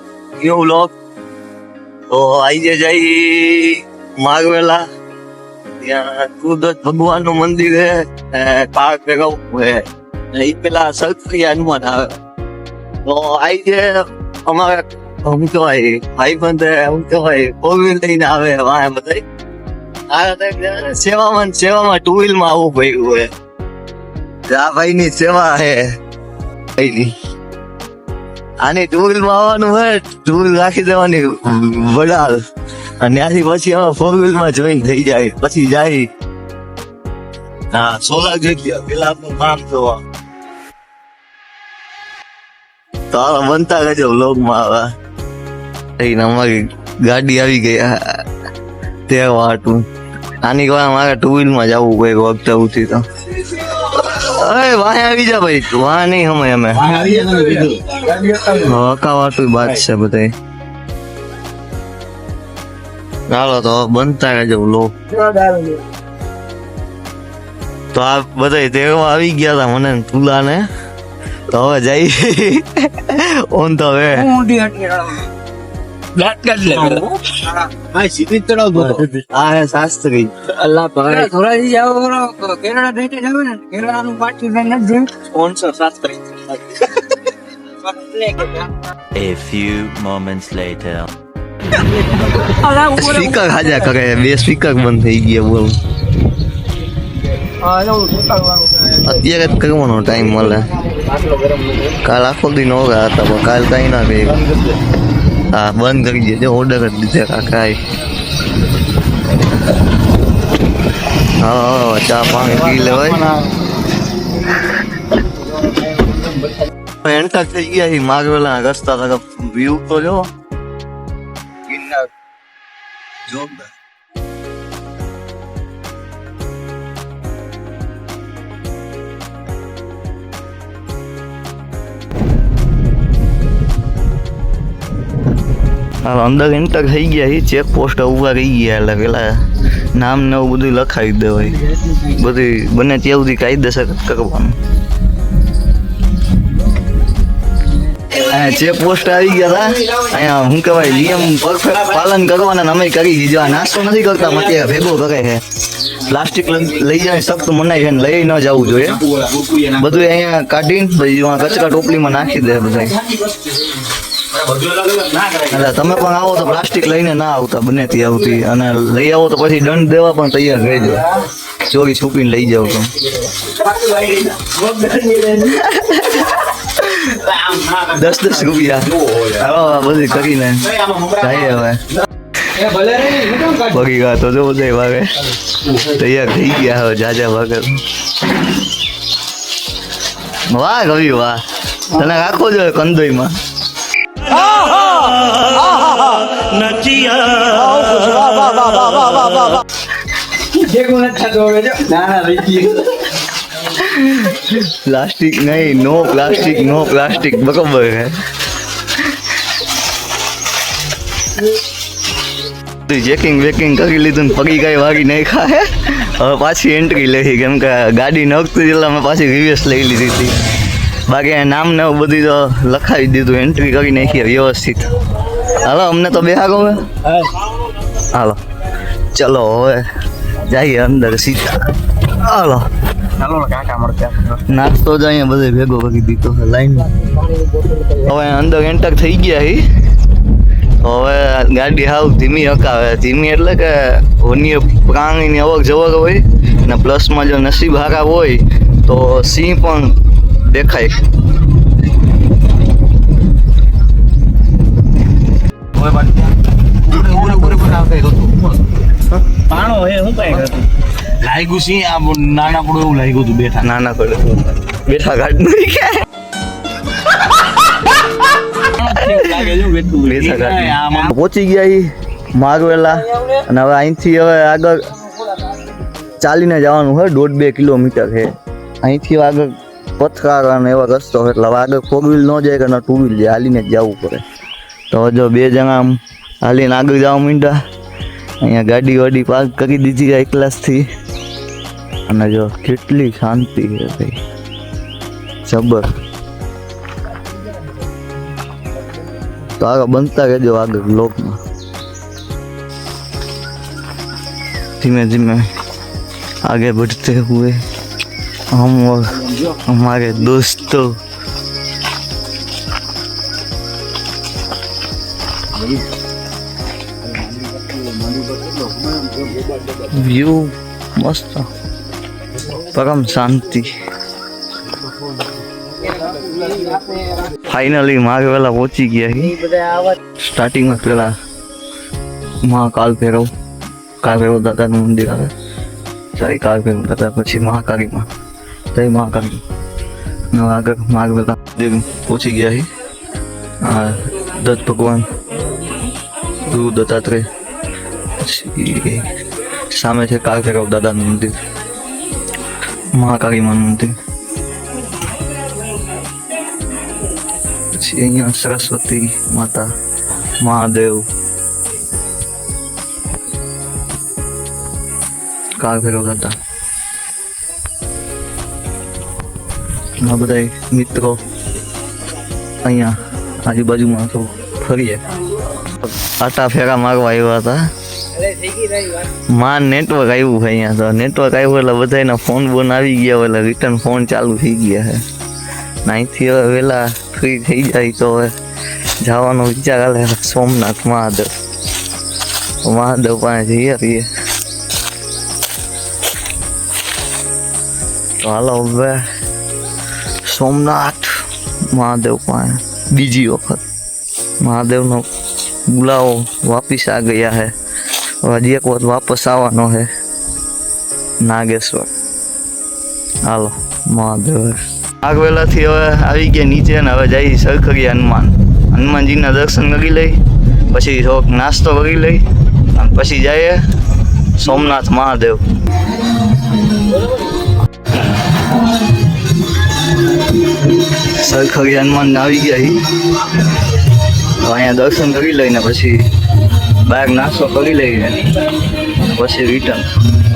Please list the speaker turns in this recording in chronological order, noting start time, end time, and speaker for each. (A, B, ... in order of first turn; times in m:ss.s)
0:00.4-0:00.9 A
0:02.1-0:04.8 A
0:05.8-0:12.1 A
0:13.0-0:19.2 A
0:20.1-0:23.3 A
0:24.5-0:25.8 A
0:26.8-0:27.1 A
0:28.6-0:32.4 A
0:33.0-0:36.1 A
0:37.7-0:40.0 A
0:43.1-0:44.9 A
0:46.0-0:48.2 A
0:49.1-0:49.8 A
0:50.4-0:56.9 A
0:56.7-0:58.6 B
0:58.6-1:00.3 A
1:03.3-1:04.9 A
1:05.1-1:05.4 C
1:05.2-1:05.8 B
1:07.9-1:10.7 A
1:11.5-1:14.3 A
1:14.2-1:15.2 C
1:16.1-1:17.0 C
1:16.7-1:19.0 B
1:16.7-1:17.1 A
1:18.7-1:20.6 A
1:20.7-1:25.1 C
1:21.0-1:21.3 B
1:23.5-1:24.3 B
1:25.2-1:26.6 A
1:27.9-1:28.6 B
1:29.1-1:31.1 D
1:32.4-1:33.8 C
1:32.9-1:35.8 A
1:37.6-1:39.1 C
1:39.0-1:40.7 A
1:40.8-1:41.8 B
1:42.0-1:44.4 A
1:44.3-1:44.8 B
1:45.5-1:47.8 A
1:51.4-1:53.3 A
1:52.4-1:52.8 B
1:57.0-2:00.3 A
2:01.7-2:02.1 A
2:03.3-2:03.7 A
2:16.0-2:19.4 A
2:19.9-2:24.5 A
2:28.1-2:39.0 A
2:38.7-2:40.0 B
2:39.8-2:43.0 A
2:44.3-2:45.8 B
2:45.5-2:52.9 A
2:53.6-2:55.6 C
2:53.9-2:54.5 B
2:55.4-2:57.2 A
2:57.3-2:58.0 B
2:57.8-3:01.8 A
2:58.7-2:59.9 B
3:00.6-3:01.6 B
3:02.5-3:03.6 C
3:03.6-3:05.1 A
3:05.7-3:07.8 A
3:10.5-3:13.3 A
3:14.2-3:19.6 C
3:20.5-3:23.0 C
3:23.7-3:28.2 A
3:32.9-3:40.4 A
3:41.1-3:44.9 A
3:45.4-3:46.8 A
3:48.0-3:48.4 A
3:49.1-3:49.8 A
3:50.4-3:52.7 A
3:53.2-3:54.4 C
3:54.5-3:57.0 A
3:57.3-3:57.9 C
3:57.9-3:59.6 A
4:00.8-4:09.9 A
4:10.4-4:11.0 A
4:15.7-4:18.6 B
4:19.3-4:23.7 B
4:19.5-4:20.5 C
4:23.6-4:26.0 A
4:28.7-4:31.1 B
4:28.8-4:34.8 A
4:36.2-4:38.3 A
4:38.8-4:44.2 A
4:44.9-4:47.6 A
4:48.4-4:50.8 A
4:52.1-4:54.2 A
4:55.4-4:55.9 A
4:59.6-5:01.4 A
5:04.8-5:05.4 A
5:06.4-5:07.6 A
5:08.5-5:10.9 A
5:17.0-5:19.9 B
5:19.8-5:21.4 A
5:22.5-5:23.8 A
5:25.8-5:27.2 B
5:27.4-5:29.6 A
5:30.2-5:31.1 A
5:32.4-5:33.3 A
5:34.0-5:35.3 A
5:36.1-5:38.1 A
5:38.7-5:39.4 A
5:40.3-5:42.7 A
5:43.6-5:45.0 A
5:46.4-5:47.2 A
5:48.2-5:49.1 A
5:49.7-5:51.4 A
5:52.9-5:53.9 A
5:57.7-5:59.7 A
6:00.4-6:01.0 A
6:05.6-6:06.4 A
6:10.0-6:11.2 A
6:12.6-6:15.0 A
6:16.0-6:17.6 A
6:18.4-6:18.9 C
6:19.1-6:25.0 A
6:25.8-6:28.3 A
6:29.0-6:31.3 A
6:32.6-6:34.1 A
6:38.2-6:39.0 A
6:40.3-6:41.1 A
6:41.7-6:43.6 A
6:44.4-6:45.0 A
6:45.7-6:47.5 A
6:48.2-6:49.9 A
6:51.2-6:51.9 A
6:53.2-7:00.2 A
7:00.7-7:03.6 A
7:04.3-7:05.4 A
7:11.0-7:12.8 A
7:14.3-7:16.0 A
7:16.8-7:18.3 A
7:19.0-7:19.9 A